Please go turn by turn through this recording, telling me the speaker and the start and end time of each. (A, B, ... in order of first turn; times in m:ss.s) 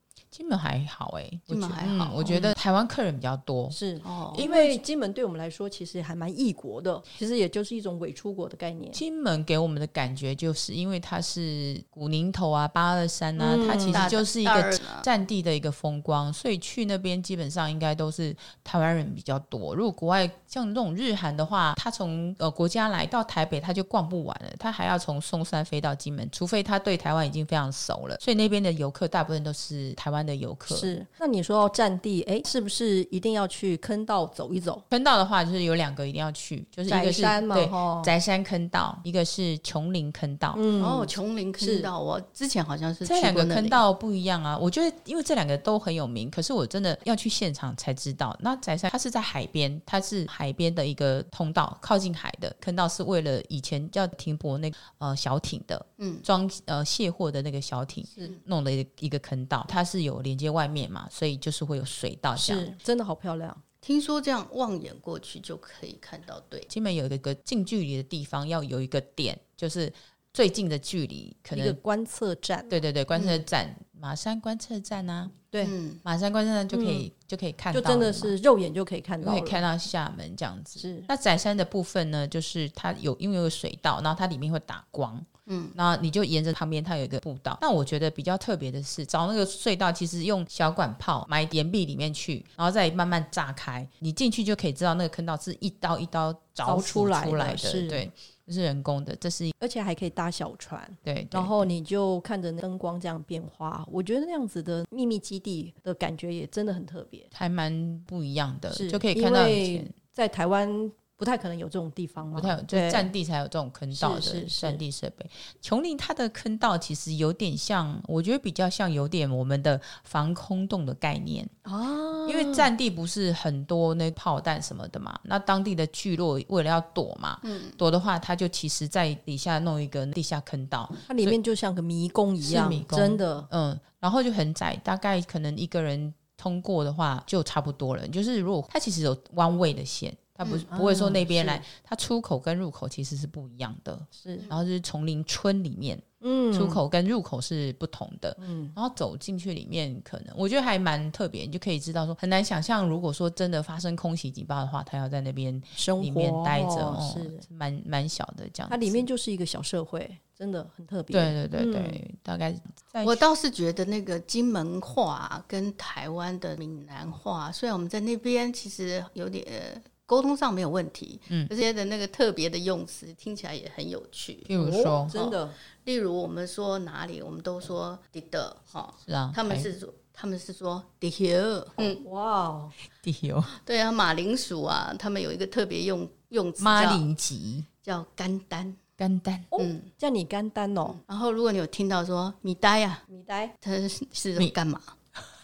0:00.3-0:03.8 A
0:01.5-0:02.5 B
0:03.7-0:09.0 C
0:04.0-0:04.5 B
0:04.3-0:04.8 A
0:08.9-0:30.9 A
0:13.4-0:14.1 C
0:13.9-0:15.1 B
0:30.7-0:34.8 C
0:34.9-0:40.7 A
0:36.9-0:38.1 C
0:40.6-0:41.9 C
0:40.8-0:43.8 B
0:43.0-1:02.7 A
0:56.0-0:56.3 B
1:02.4-1:03.6 C
1:03.8-1:06.7 B
1:06.7-1:11.8 A
1:11.5-1:12.7 C
1:12.7-1:15.5 A
1:13.2-1:13.4 B
1:15.6-1:16.0 B
1:16.0-1:18.4 A
1:16.7-1:17.1 C
1:17.7-1:19.6 C
1:19.2-1:39.5 A
1:20.8-1:21.1 C
1:25.5-1:25.8 B
1:36.6-1:38.1 C
1:39.6-1:47.3 C
1:41.0-1:41.7 A
1:47.3-1:49.9 A
1:48.7-1:53.1 C
1:52.4-2:01.5 A
1:53.9-1:54.8 C
2:01.6-2:02.7 C
2:02.3-2:11.4 A
2:07.4-2:07.8 B
2:11.1-2:13.5 C
2:12.4-2:39.0 A
2:20.7-2:21.6 C
2:24.2-2:24.5 C
2:26.2-2:26.8 C
2:28.4-2:28.8 C
2:35.8-2:37.4 C
2:38.7-2:42.0 C
2:41.1-2:43.2 A
2:43.0-2:54.5 B
2:54.5-2:55.2 A
2:54.5-2:55.6 C
2:55.1-3:02.0 B
2:59.1-2:59.7 A
3:01.8-3:02.7 C
3:03.0-3:03.5 A
3:03.5-3:07.0 B
3:06.6-3:07.7 A
3:07.8-3:08.8 B
3:09.0-3:09.5 A
3:09.5-3:11.0 C
3:09.6-3:09.9 B
3:10.9-3:13.1 B
3:13.1-3:13.5 C
3:13.6-3:14.9 B